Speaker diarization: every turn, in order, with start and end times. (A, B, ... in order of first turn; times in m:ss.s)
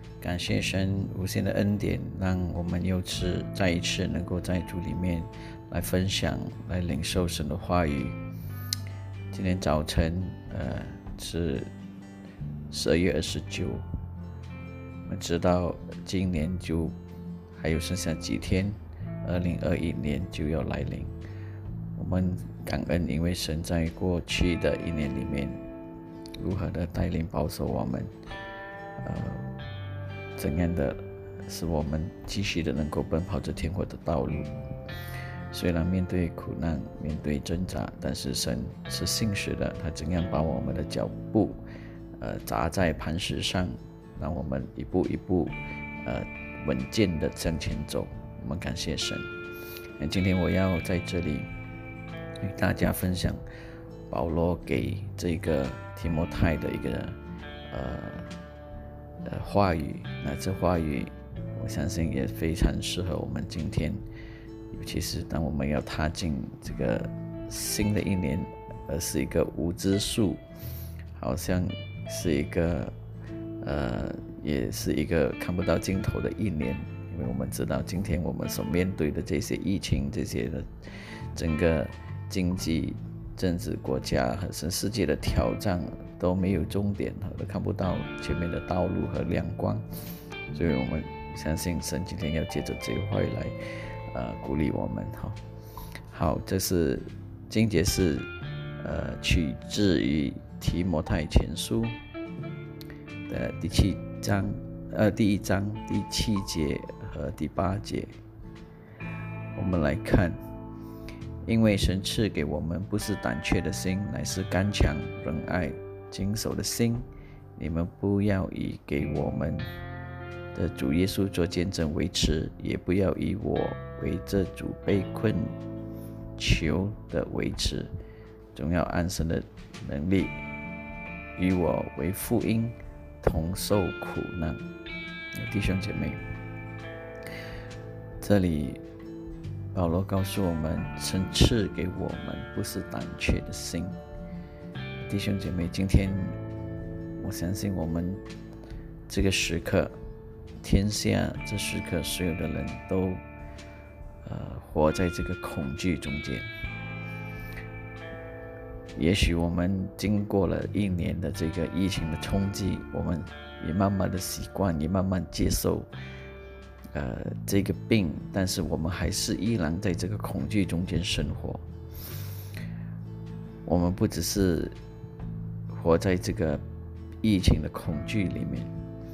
0:00.2-0:08.2 A
0:09.3-0:11.7 A
0:12.7-0:13.8 A
0:15.0-0:17.0 A
0:17.6-0:21.1 A
0:22.0-0:25.6 A
0:26.4-0:28.1 A
0:29.0-0:29.4 A
0:30.4-0:34.5 A
0:35.5-0:41.6 A
0:42.2-0:49.3 A
0:50.0-0:51.5 A
0:52.4-0:53.4 A
0:54.1-0:57.2 A
0:57.7-0:58.3 A
0:59.2-1:04.0 A
1:04.7-1:10.4 A
1:11.2-1:12.9 A
1:13.6-1:29.8 A
1:30.5-1:33.6 A
1:34.1-1:35.4 A
1:36.1-1:42.0 A
1:43.3-1:48.2 A
1:49.6-1:50.4 A
1:51.4-1:57.0 A
1:57.6-1:59.7 A
2:00.5-2:05.5 A
2:06.4-2:07.9 A
2:08.5-2:10.4 A
2:11.4-2:14.6 A
2:15.4-2:16.2 A
2:18.2-2:18.8 A
2:19.7-2:24.0 A
2:25.0-2:26.4 A
2:27.2-2:28.2 A
2:29.1-2:29.9 A
2:30.6-2:33.2 A
2:34.2-2:36.5 A
2:39.0-2:45.9 A
2:46.9-2:51.6 A
2:53.6-2:54.8 A
2:55.7-2:56.6 A
2:57.2-2:58.7 A